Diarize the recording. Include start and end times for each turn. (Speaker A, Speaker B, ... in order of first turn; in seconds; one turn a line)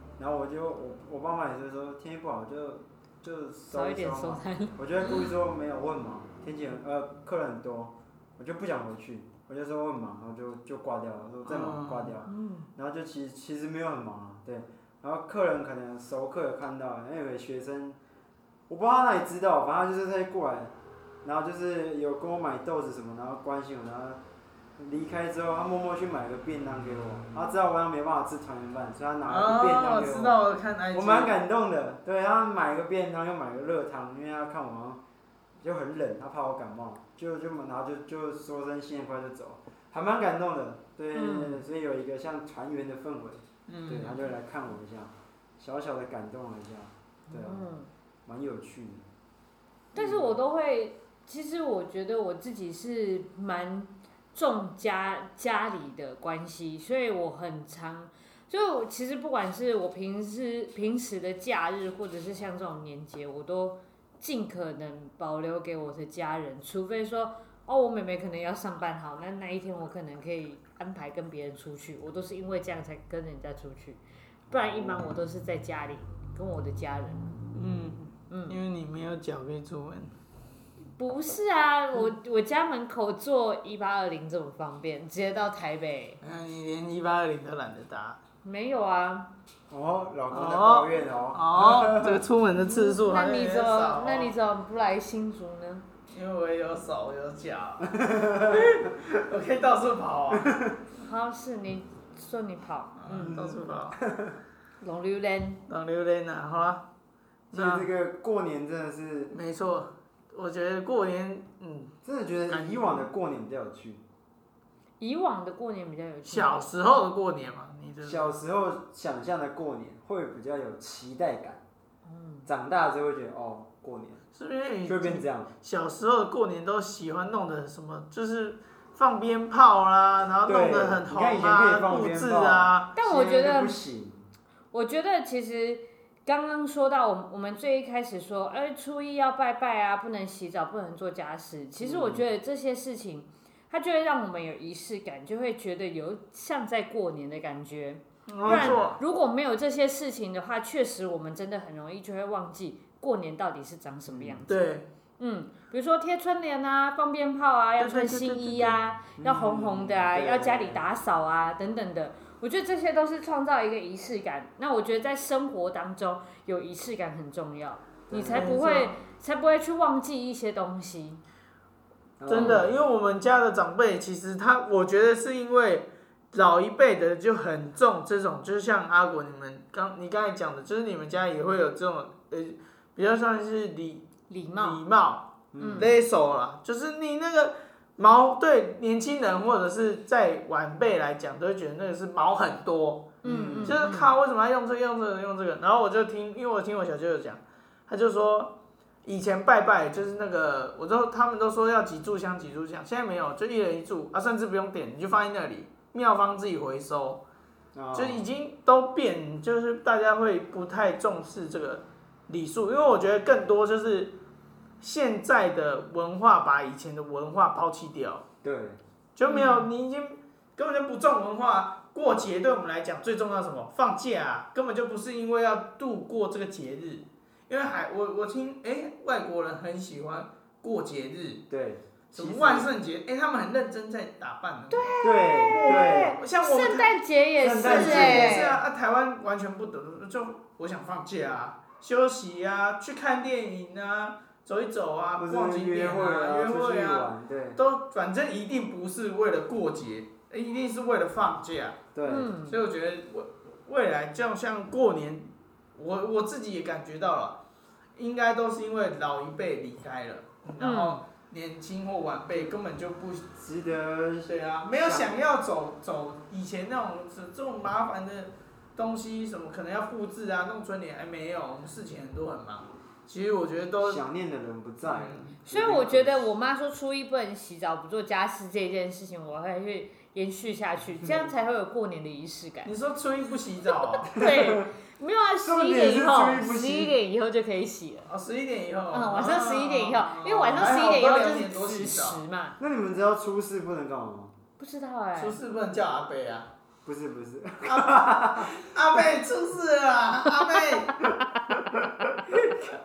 Speaker A: 0.2-18.0
Speaker B: 3.7-5.2
Speaker C: 11.4-12.1
Speaker B: 12.2-12.7
Speaker A: 18.7-20.7
Speaker A: 21.2-24.2
Speaker A: 24.8-30.4
Speaker C: 29.3-31.3
Speaker A: 30.9-35.0
Speaker A: 35.6-47.6
Speaker B: 41.1-41.6
Speaker C: 43.7-44.2
Speaker B: 47.3-47.9
Speaker A: 48.2-49.0
Speaker A: 49.9-50.4
Speaker B: 49.9-77.3
Speaker C: 77.5-80.1
Speaker B: 78.3-78.6
Speaker B: 81.0-86.2
Speaker C: 86.2-88.2
Speaker B: 88.4-89.3
Speaker A: 89.7-92.2
Speaker C: 90.3-94.3
Speaker B: 92.6-95.8
Speaker C: 96.1-100.6
Speaker A: 97.9-98.7
Speaker A: 100.3-100.7
Speaker B: 101.0-103.4
Speaker C: 103.0-104.0
Speaker A: 103.2-104.3
Speaker B: 104.8-105.6
Speaker C: 105.7-106.9
Speaker C: 107.5-107.9
Speaker A: 107.5-109.3
Speaker C: 109.3-111.9
Speaker A: 112.0-114.0
Speaker C: 112.5-113.0
Speaker B: 115.0-116.7
Speaker C: 116.3-118.3
Speaker A: 118.0-121.6
Speaker B: 122.0-122.5
Speaker A: 122.5-124.2
Speaker C: 124.3-132.9
Speaker A: 124.8-125.5
Speaker A: 130.4-134.2
Speaker B: 132.9-133.8
Speaker B: 134.7-171.2
Speaker A: 141.8-142.2
Speaker C: 148.3-149.0
Speaker A: 148.4-148.9
Speaker A: 154.1-154.4
Speaker C: 154.5-154.9
Speaker C: 157.8-158.8
Speaker A: 159.2-160.8
Speaker A: 168.1-168.5
Speaker C: 168.2-168.9
Speaker A: 172.2-172.7
Speaker C: 172.3-207.2
Speaker B: 172.3-172.6
Speaker B: 184.3-184.8
Speaker A: 185.5-185.9
Speaker B: 185.6-185.9
Speaker B: 193.2-194.1
Speaker A: 193.2-193.8
Speaker A: 207.7-208.3
Speaker C: 207.9-214.2
Speaker C: 214.8-218.2
Speaker A: 218.4-218.8
Speaker C: 219.2-231.4
Speaker B: 219.2-219.7
Speaker A: 231.5-232.7
Speaker C: 232.1-236.9
Speaker B: 234.7-238.6
Speaker A: 235.0-236.2
Speaker A: 237.4-238.5
Speaker C: 237.5-251.8
Speaker A: 245.2-247.6
Speaker A: 251.9-252.4
Speaker B: 252.1-252.6
Speaker C: 252.4-257.4
Speaker C: 257.9-263.3
Speaker B: 260.6-261.0
Speaker A: 263.4-265.2
Speaker C: 264.2-274.0
Speaker A: 273.8-276.3
Speaker C: 274.8-275.3
Speaker B: 275.4-282.7
Speaker A: 281.0-281.3
Speaker C: 282.6-284.1
Speaker B: 284.0-288.1
Speaker A: 284.1-284.7
Speaker A: 285.4-286.9
Speaker C: 288.1-292.2
Speaker B: 288.9-292.6
Speaker A: 292.6-294.3
Speaker B: 294.6-295.4
Speaker C: 295.2-296.5
Speaker A: 296.8-299.2
Speaker C: 297.6-301.0
Speaker B: 300.3-300.8
Speaker A: 301.0-302.7
Speaker C: 302.1-302.7